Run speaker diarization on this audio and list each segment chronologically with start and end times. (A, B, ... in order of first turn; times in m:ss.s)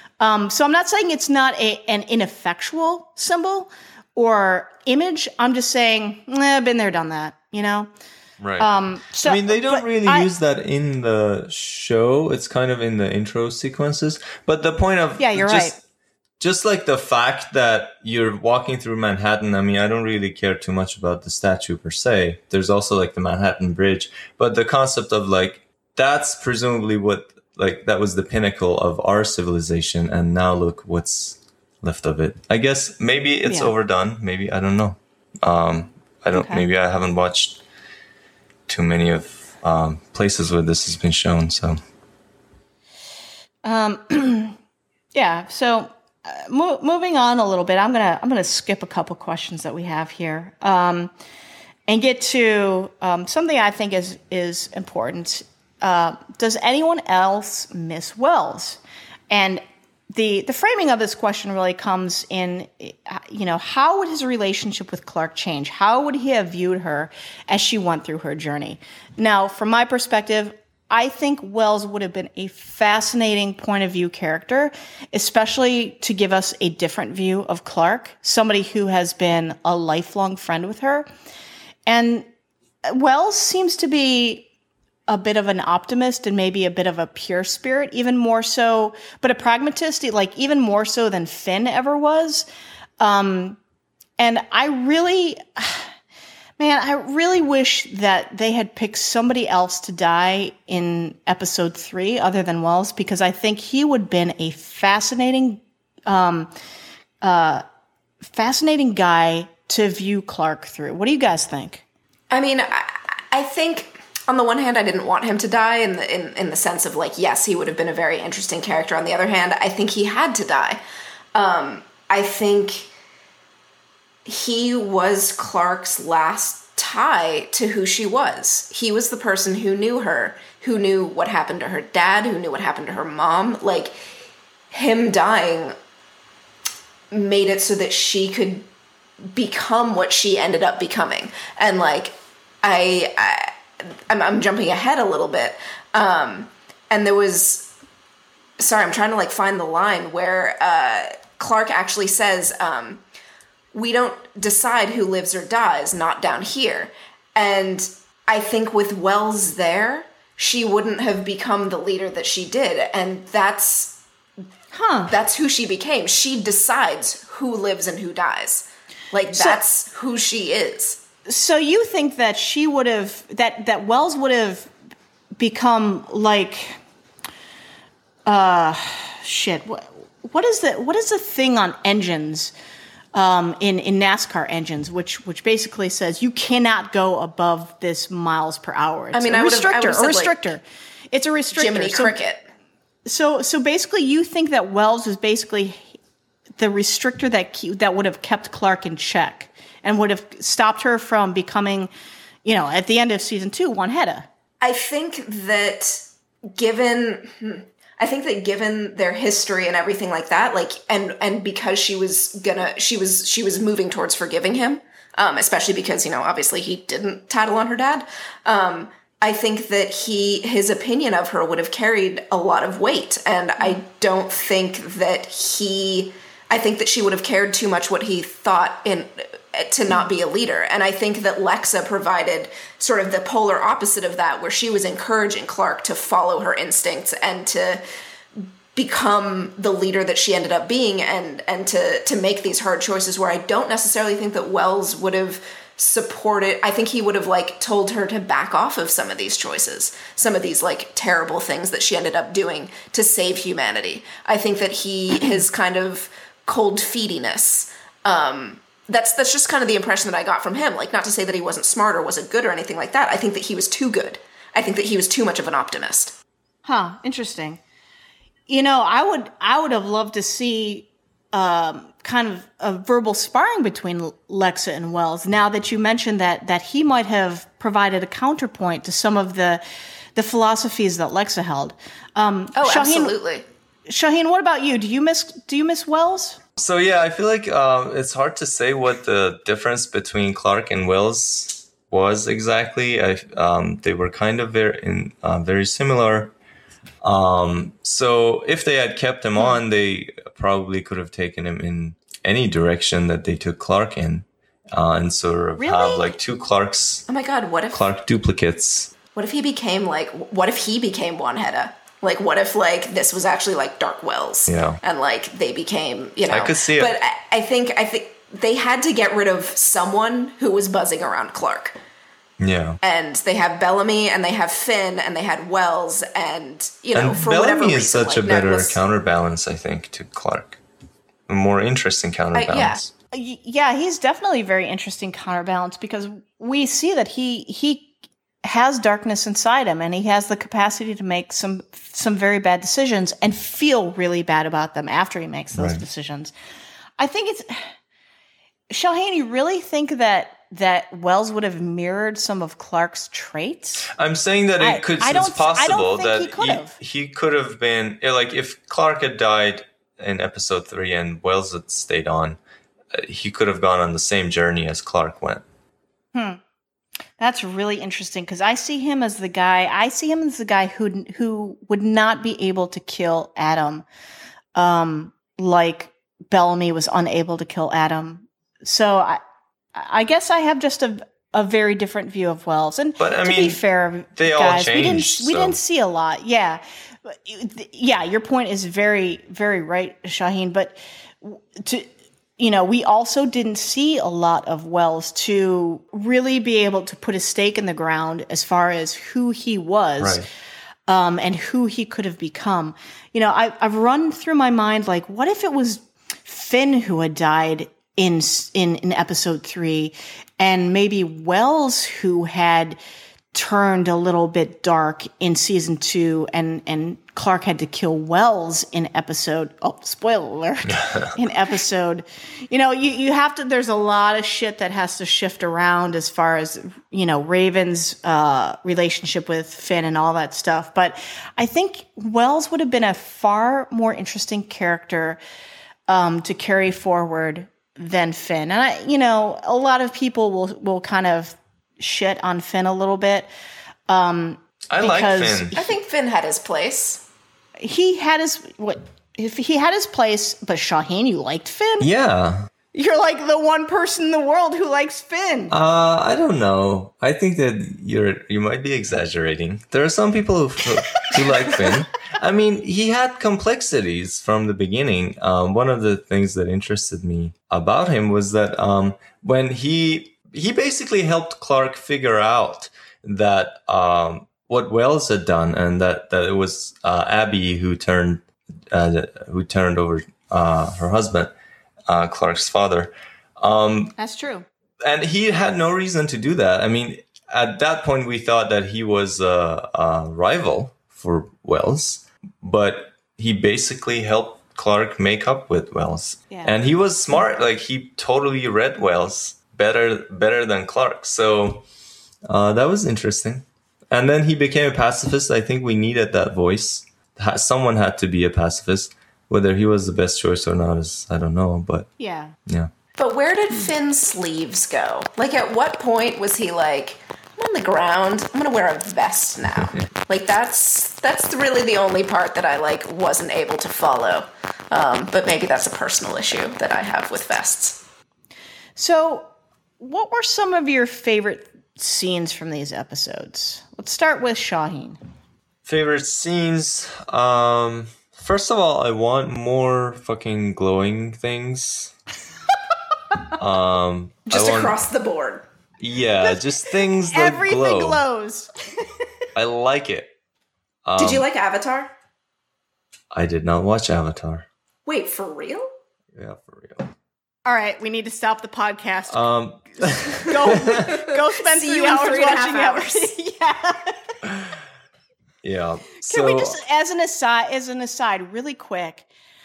0:00.2-0:07.9 A
0:08.4-0:08.7 B
0:08.6-0:10.3 A
0:09.2-0:15.8 B
0:15.2-0:15.8 A
0:16.4-0:37.6 B
0:33.5-0:33.7 A
0:36.4-0:36.6 A
0:38.7-0:41.8 B
0:43.6-0:44.6 A
0:45.2-0:51.1 A
0:51.9-1:21.1 A
1:21.9-1:22.3 A
1:22.9-1:24.5 A
1:25.1-1:32.5 A
1:33.0-1:33.6 A
1:34.2-1:35.9 A
1:36.6-1:46.5 A
1:47.2-1:47.6 A
1:48.2-1:51.8 A
1:52.3-2:00.8 C
2:01.4-2:02.9 C
2:04.3-2:13.9 C
2:14.7-2:15.8 C
2:17.1-2:18.6 C
2:19.3-2:23.5 C
2:24.1-2:27.7 C
2:28.6-2:33.0 C
2:33.7-2:44.0 C
2:44.7-2:45.2 A
2:45.1-2:51.0 C
2:49.3-2:49.6 A
2:51.3-2:54.7 A
2:55.4-2:56.8 A
2:58.3-3:02.5 A
3:03.1-3:12.1 A
3:09.1-3:10.4 C
3:11.5-3:12.4 C
3:13.1-3:15.9 A
3:16.6-3:21.9 A
3:22.4-3:24.3 A
3:24.6-3:57.8 C
3:58.4-4:26.2 C
4:26.7-4:27.6 A
4:28.5-4:39.6 A
4:40.2-4:43.2 A
4:42.6-4:43.4 C
4:43.9-4:46.4 A
4:46.6-4:56.3 B
4:57.0-5:07.0 B
5:05.6-5:06.1 A
5:07.1-5:07.8 C
5:07.7-5:08.9 B
5:09.2-5:21.8 C
5:14.5-5:14.8 B
5:16.3-5:17.0 B
5:22.4-5:22.8 B
5:22.8-5:28.8 C
5:27.0-5:30.6 B
5:31.3-5:32.9 B
5:32.3-5:32.8 C
5:33.1-5:37.9 A
5:38.4-5:46.3 A
5:45.6-5:45.8 B
5:47.0-5:47.7 A
5:48.7-5:53.9 A
5:53.9-6:02.4 B
5:54.6-5:56.8 A
6:02.9-6:05.4 B
6:06.1-6:06.4 A
6:07.2-6:13.8 A
6:14.6-6:19.2 A
6:19.8-6:31.9 A
6:23.0-6:23.6 B
6:24.2-6:25.6 B
6:32.4-6:40.2 A
6:40.0-6:40.3 B
6:40.9-6:52.8 A
6:53.3-7:15.2 A
7:00.7-7:01.1 B
7:15.9-7:23.3 A
7:23.9-7:25.8 A
7:24.7-7:25.5 B
7:25.5-7:27.0 C
7:27.6-7:31.9 A
7:31.8-7:32.5 B
7:32.7-7:35.5 A
7:35.5-8:01.3 B
7:41.0-7:41.7 A
8:01.9-8:03.9 B
8:04.0-8:04.5 A
8:04.8-8:21.6 B
8:16.3-8:16.6 A
8:22.3-8:31.9 B
8:32.0-8:32.4 A
8:33.0-8:47.8 C
8:48.8-8:49.3 A
8:49.8-8:55.0 A
8:55.6-9:02.0 B
9:03.4-9:04.8 B
9:04.3-9:05.4 C
9:05.8-9:08.0 B
9:07.0-9:08.9 A
9:09.4-9:10.1 B
9:10.9-9:11.2 B
9:11.0-9:11.9 C
9:13.1-9:14.5 B
9:14.9-9:15.7 C
9:16.2-9:16.9 B
9:17.5-9:24.2 A
9:19.1-9:21.0 B
9:21.4-9:23.1 C
9:24.3-9:24.5 B
9:25.4-9:26.6 B
9:26.0-9:29.1 A